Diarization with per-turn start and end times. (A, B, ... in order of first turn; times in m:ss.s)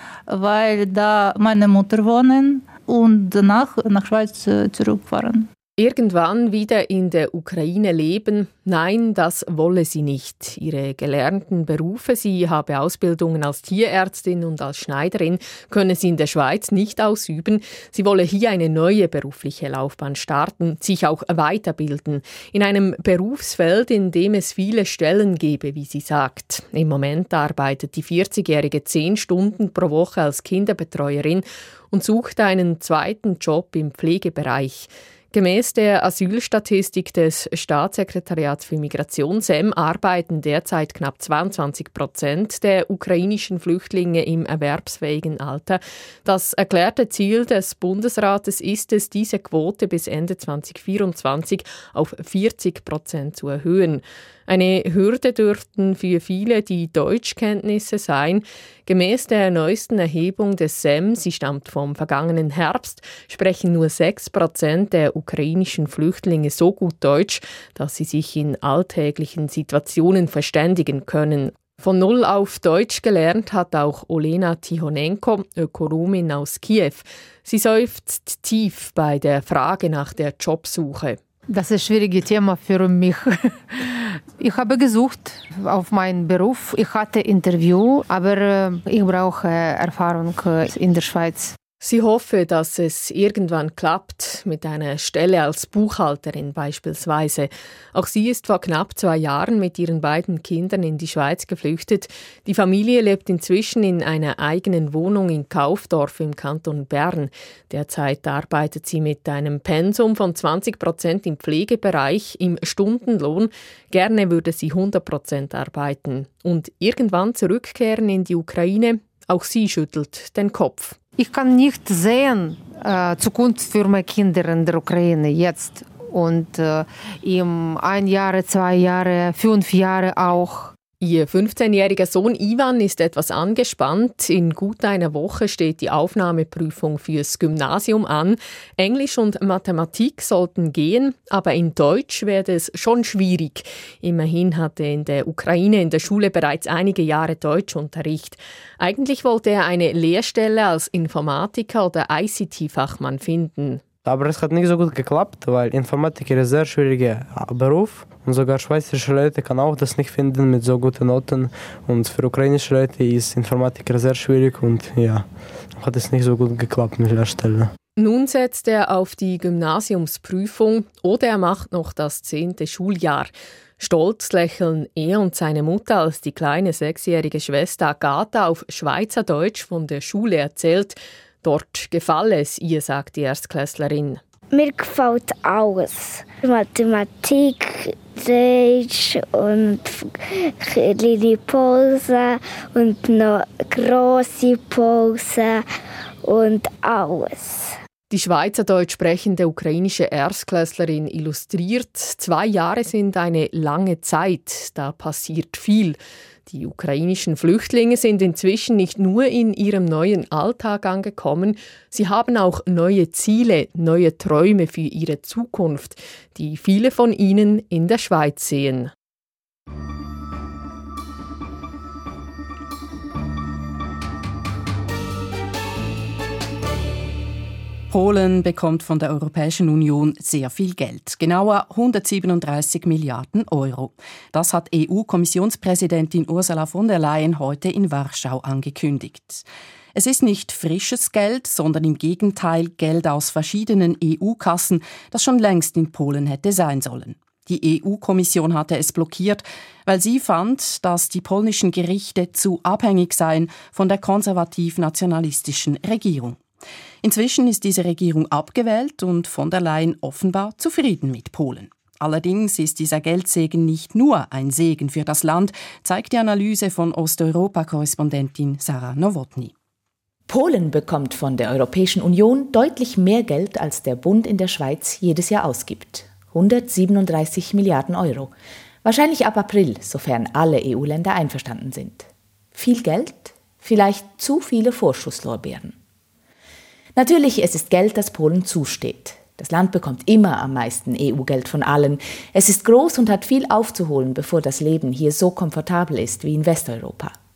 0:00.3-0:05.5 A
0:05.8-1:21.2 B
1:21.5-1:31.5 C
1:31.8-2:01.0 B
2:01.2-2:10.7 C
2:11.0-2:33.8 B
2:34.0-2:47.7 D
2:48.0-3:04.2 B
3:04.5-3:15.6 E
3:16.2-3:17.8 E
3:18.1-3:38.9 B
3:47.9-4:16.4 F
4:17.0-4:29.5 F
4:30.3-4:45.8 G
4:47.0-4:57.1 G